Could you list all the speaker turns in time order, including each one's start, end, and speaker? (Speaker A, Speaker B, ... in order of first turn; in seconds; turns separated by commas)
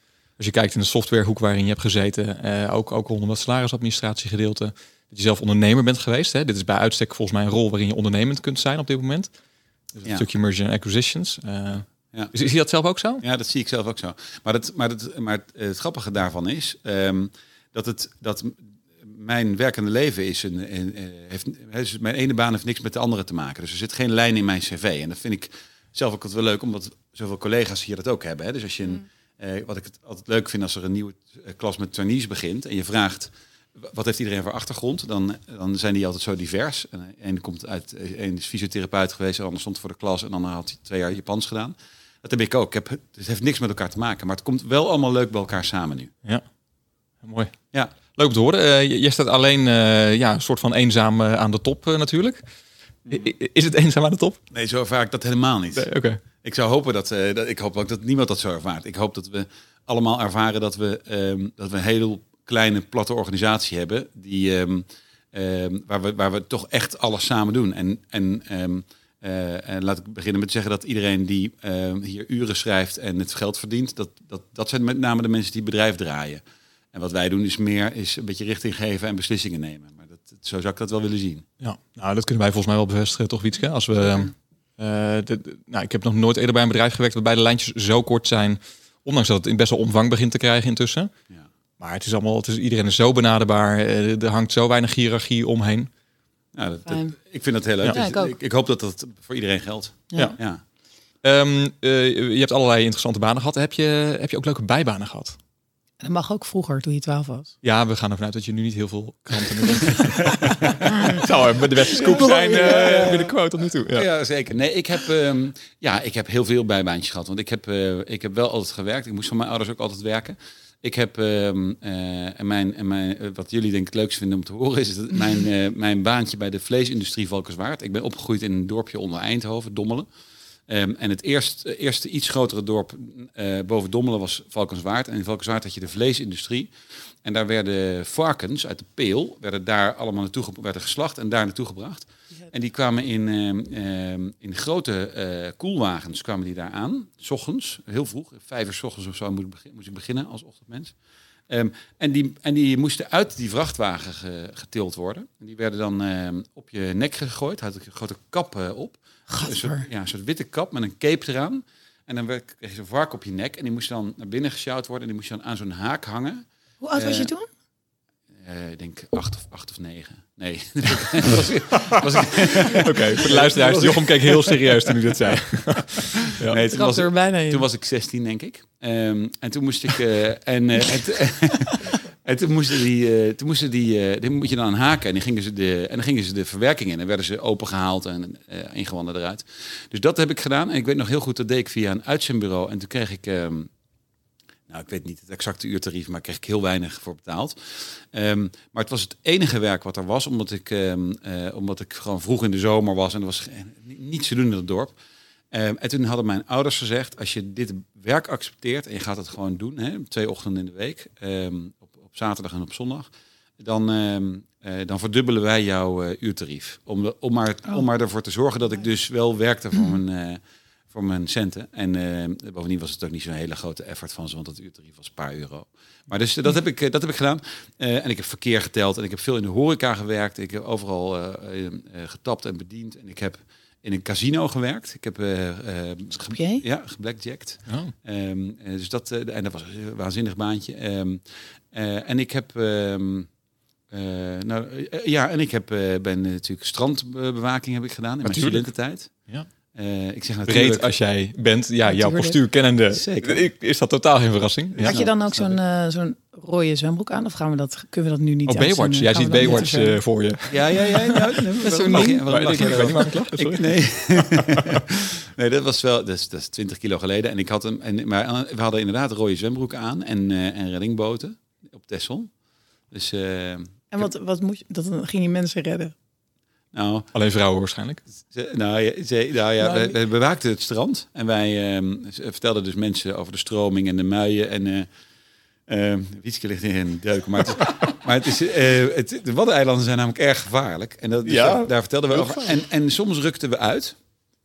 Speaker A: 0.4-9.3, Speaker A: 10.0-13.2, Speaker B: 13.2-46.1, Speaker A: 47.2-47.6, Speaker A: 48.1-52.4, Speaker A: 53.1-54.4, Speaker B: 54.5-55.9, Speaker A: 55.7-56.2, Speaker B: 56.4-76.4, Speaker B: 76.9-81.5, Speaker A: 81.6-91.1, Speaker A: 91.8-95.9, Speaker B: 96.5-100.6, Speaker C: 96.9-97.1, Speaker C: 97.9-98.3, Speaker A: 101.2-105.4, Speaker C: 106.0-107.5, Speaker A: 107.6-114.1, Speaker B: 110.5-111.2, Speaker B: 111.9-113.3, Speaker C: 112.2-113.2, Speaker B: 113.9-130.1, Speaker B: 130.7-136.7, Speaker B: 137.2-150.9, Speaker B: 151.5-167.3, Speaker C: 159.3-159.8, Speaker C: 166.8-167.5, Speaker B: 168.4-175.0, Speaker A: 171.8-176.6, Speaker B: 176.2-193.7, Speaker C: 176.6-177.6, Speaker B: 194.7-204.9, Speaker B: 205.5-213.1, Speaker B: 213.6-220.4, Speaker B: 220.9-243.3, Speaker C: 236.3-236.6, Speaker A: 237.7-237.9, Speaker B: 243.9-249.1, Speaker A: 248.2-248.7, Speaker B: 249.7-250.9, Speaker A: 250.4-255.0, Speaker C: 251.8-252.4, Speaker B: 252.9-253.4, Speaker B: 254.7-255.6, Speaker C: 254.8-260.0, Speaker A: 258.5-264.8, Speaker B: 260.5-272.3, Speaker C: 261.6-262.9, Speaker B: 272.9-273.9, Speaker C: 273.9-275.9, Speaker B: 276.7-277.1, Speaker A: 277.1-278.0, Speaker B: 278.3-284.9, Speaker A: 279.6-279.9, Speaker B: 285.7-294.0, Speaker A: 291.2-292.6